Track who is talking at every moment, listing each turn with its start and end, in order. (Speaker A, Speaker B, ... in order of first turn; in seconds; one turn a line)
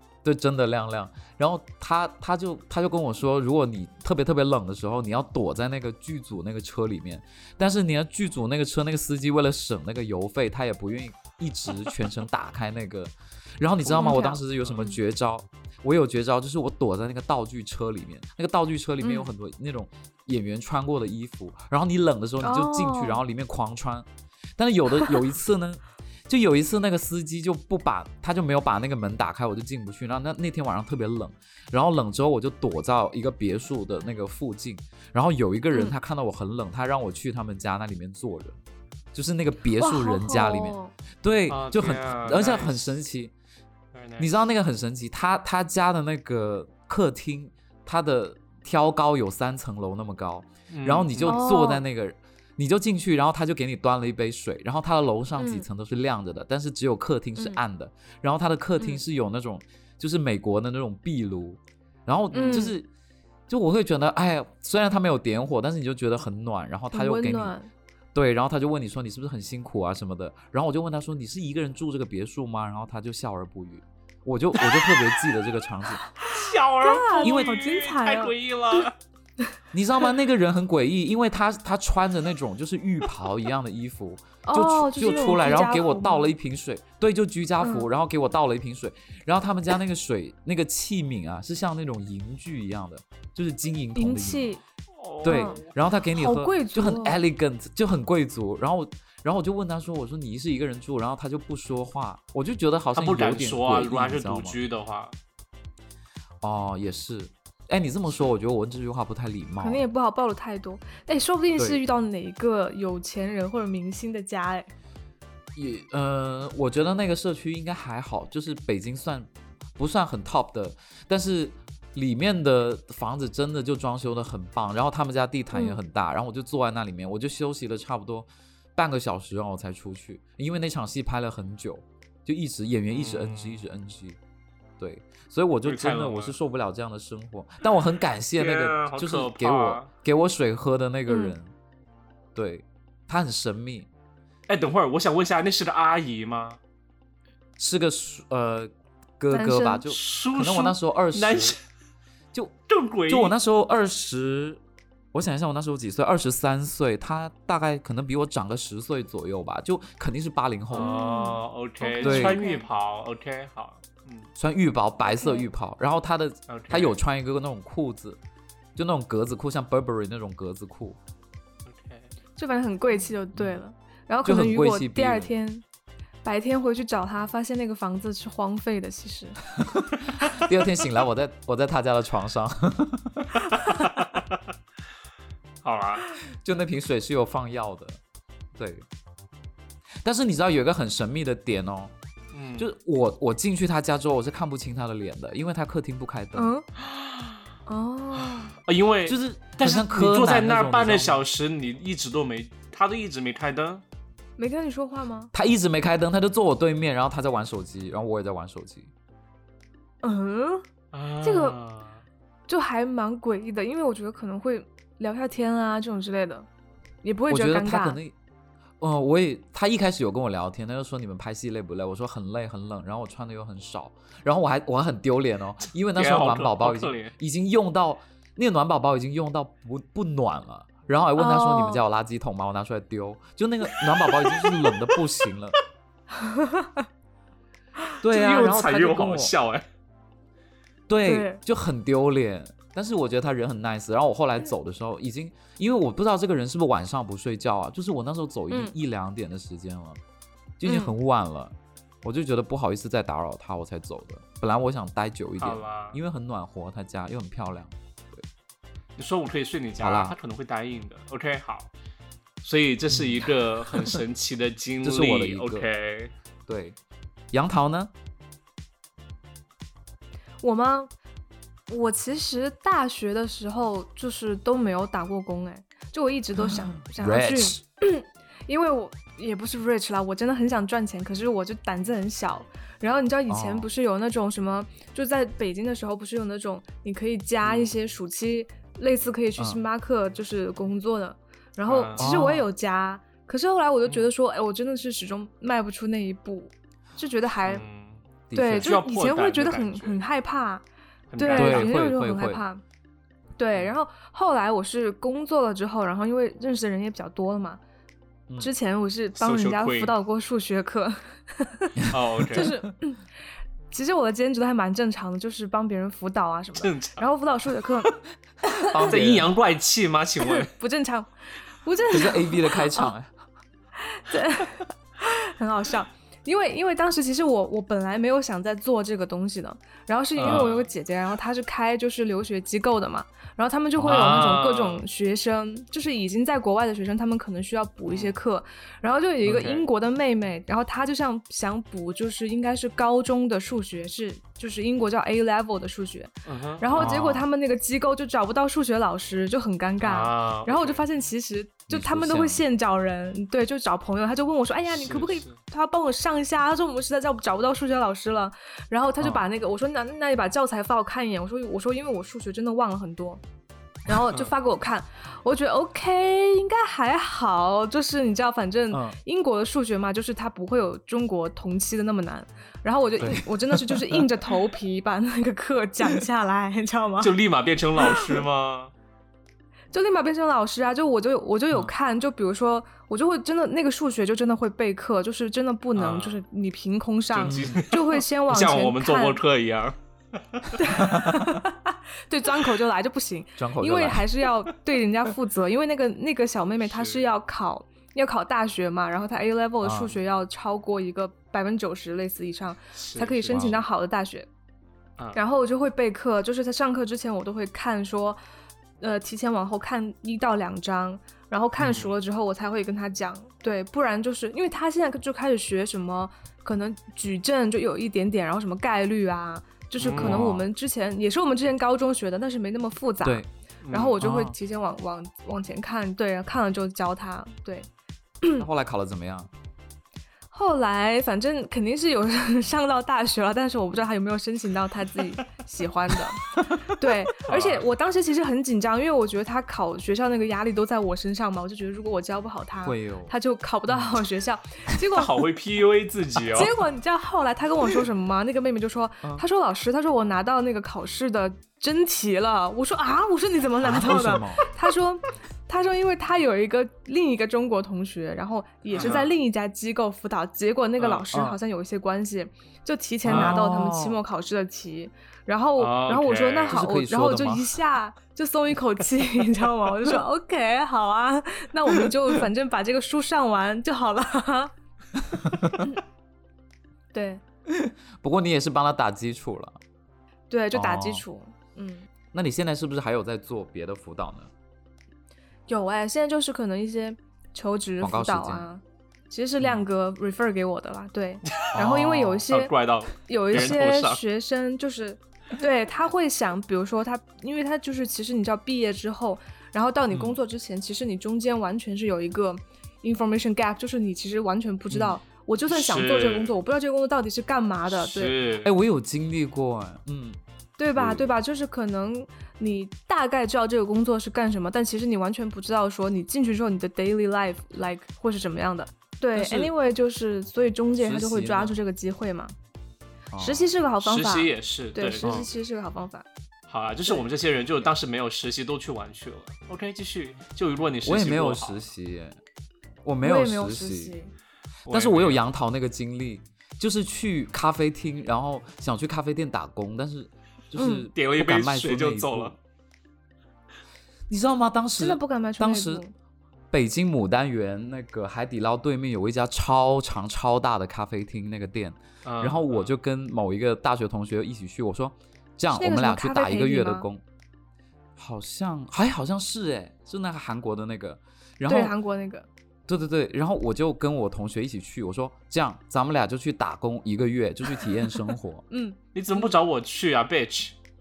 Speaker A: 0.2-38.6
Speaker B: 13.8-15.0
Speaker B: 19.0-19.3
Speaker B: 22.4-23.2
Speaker A: 39.1-43.3
Speaker B: 39.8-40.9
Speaker C: 41.5-43.0
Speaker C: 43.9-44.5
Speaker A: 44.2-62.9
Speaker C: 50.7-51.4
Speaker B: 51.2-51.8
Speaker B: 55.4-55.6
Speaker C: 62.3-62.7
Speaker B: 62.4-62.7
Speaker A: 63.5-67.5
Speaker B: 66.9-67.7
Speaker A: 68.1-76.0
Speaker B: 76.2-78.3
Speaker C: 76.2-79.0
Speaker A: 77.2-77.6
Speaker A: 79.7-94.5
Speaker B: 84.5-86.3
Speaker B: 87.6-87.9
Speaker B: 94.0-94.6
Speaker C: 95.0-95.7
Speaker B: 95.2-95.6
Speaker A: 95.2-104.6
Speaker B: 96.1-97.2
Speaker C: 103.0-105.1
Speaker A: 106.4-109.9
Speaker B: 109.6-114.7
Speaker A: 115.5-134.2
Speaker B: 125.5-125.8
Speaker C: 132.9-133.6
Speaker A: 134.8-141.5
Speaker C: 135.6-136.3
Speaker C: 138.4-139.9
Speaker B: 141.1-141.3
Speaker A: 142.3-143.9
Speaker C: 144.5-146.6
Speaker A: 147.6-151.6
Speaker B: 149.3-149.9
Speaker C: 149.9-151.6
Speaker C: 152.7-153.3
Speaker A: 153.1-154.6
Speaker A: 155.1-160.9
Speaker C: 160.7-164.3
Speaker B: 160.8-162.7
Speaker A: 162.0-162.4
Speaker A: 164.4-168.2
Speaker B: 165.1-165.5
Speaker C: 166.5-167.0
Speaker A: 168.8-171.0
Speaker C: 171.7-172.1
Speaker B: 172.4-175.6
Speaker A: 174.2-175.3
Speaker B: 176.2-179.4
Speaker A: 179.6-183.3
Speaker C: 183.6-184.4
Speaker C: 185.6-186.1
Speaker A: 186.4-188.0
Speaker A: 188.6-188.9
Speaker A: 190.0-191.9
Speaker C: 192.3-192.7
Speaker A: 192.6-196.5
Speaker B: 196.3-196.6
Speaker C: 196.8-197.4
Speaker B: 197.7-198.6
Speaker C: 198.6-203.8
Speaker A: 199.1-201.2
Speaker B: 204.4-205.3
Speaker A: 205.3-208.9
Speaker B: 210.0-210.6
Speaker C: 210.9-212.0
Speaker B: 211.2-211.6
Speaker B: 212.5-216.5
Speaker B: 217.0-218.0
Speaker A: 217.3-218.1
Speaker A: 218.8-235.6
Speaker C: 225.9-227.2
Speaker B: 231.2-231.8
Speaker C: 234.3-234.9
Speaker B: 236.2-236.8
Speaker A: 238.0-239.3
Speaker C: 238.1-239.6
Speaker A: 240.9-250.0
Speaker B: 241.1-241.4
Speaker A: 250.6-258.2
Speaker B: 250.6-250.9
Speaker C: 255.4-256.0
Speaker C: 259.0-261.7
Speaker A: 259.8-260.2
Speaker C: 262.4-266.1
Speaker A: 262.9-263.9
Speaker A: 264.8-265.7
Speaker A: 266.5-266.8
Speaker A: 267.3-267.9
Speaker B: 270.4-270.9
Speaker B: 271.7-297.6
Speaker A: 276.4-277.6
Speaker A: 283.3-283.7
Speaker C: 287.4-287.8
Speaker C: 291.7-292.1
Speaker A: 292.0-292.5
Speaker C: 297.5-298.0
Speaker A: 298.3-298.7
Speaker B: 298.3-300.6
Speaker C: 298.6-300.0
Speaker C: 301.1-301.7
Speaker B: 301.2-302.6
Speaker A: 301.3-302.4
Speaker B: 303.4-307.6
Speaker B: 308.4-313.0
Speaker C: 309.2-309.9
Speaker A: 311.8-312.6
Speaker C: 311.9-312.5
Speaker B: 313.7-318.0
Speaker C: 316.6-317.0
Speaker B: 318.6-318.9
Speaker A: 318.7-319.3
Speaker C: 318.8-320.5
Speaker B: 320.2-321.1
Speaker B: 321.6-322.9
Speaker A: 321.9-323.1
Speaker B: 323.8-363.2
Speaker C: 330.2-330.7
Speaker C: 333.8-334.8
Speaker C: 337.9-338.2
Speaker C: 339.2-339.7
Speaker C: 346.2-347.1
Speaker A: 346.8-347.2
Speaker C: 349.8-350.8
Speaker A: 351.7-352.4
Speaker C: 354.7-355.4
Speaker B: 363.9-377.1
Speaker A: 368.7-369.0
Speaker A: 373.0-374.0
Speaker C: 377.0-378.7
Speaker B: 377.8-378.2
Speaker B: 379.7-389.2
Speaker C: 385.8-386.2
Speaker C: 387.1-389.8
Speaker A: 387.2-387.6
Speaker C: 390.3-390.6
Speaker B: 390.6-404.3
Speaker A: 390.8-391.3
Speaker A: 393.4-394.1
Speaker C: 396.6-397.0
Speaker A: 399.6-400.0
Speaker C: 402.7-403.6
Speaker A: 403.3-403.6
Speaker B: 405.1-408.2
Speaker B: 408.8-427.7
Speaker C: 411.6-411.9
Speaker C: 419.8-420.3
Speaker A: 419.9-420.4
Speaker C: 423.6-424.0
Speaker A: 424.0-424.3
Speaker B: 428.2-428.5
Speaker A: 428.4-429.3
Speaker B: 430.3-445.1
Speaker C: 437.2-437.7
Speaker A: 442.6-443.1
Speaker C: 444.9-446.5
Speaker B: 446.3-474.5
Speaker A: 453.6-454.4
Speaker C: 458.8-459.1
Speaker C: 460.8-461.1
Speaker A: 461.1-461.4
Speaker C: 463.0-463.4
Speaker A: 463.1-464.0
Speaker C: 465.6-466.6
Speaker A: 466.5-467.6
Speaker A: 475.2-475.6
Speaker B: 476.9-477.2
Speaker A: 477.5-479.6
Speaker B: 480.3-481.9
Speaker A: 480.5-481.0
Speaker A: 482.1-484.3
Speaker B: 485.5-508.1
Speaker A: 487.8-488.5
Speaker C: 491.4-494.0
Speaker A: 491.5-492.2
Speaker A: 504.7-505.0
Speaker C: 505.5-506.3
Speaker C: 507.7-508.5
Speaker A: 508.4-510.2
Speaker B: 510.6-522.3
Speaker A: 510.8-511.1
Speaker C: 519.1-519.5
Speaker A: 520.8-521.5
Speaker A: 523.1-523.5
Speaker B: 523.2-526.0
Speaker C: 523.8-525.3
Speaker C: 526.5-531.6
Speaker A: 530.8-532.2
Speaker A: 532.8-534.0
Speaker B: 533.0-534.1
Speaker C: 534.7-535.2
Speaker A: 534.7-542.4
Speaker B: 540.5-540.9
Speaker C: 540.9-542.4
Speaker A: 544.1-545.8
Speaker B: 544.8-545.9
Speaker A: 546.5-557.0
Speaker C: 552.0-552.7
Speaker B: 555.5-556.9
Speaker A: 558.0-561.7
Speaker B: 561.5-562.3
Speaker A: 562.7-568.5
Speaker B: 568.5-568.8
Speaker C: 568.9-570.5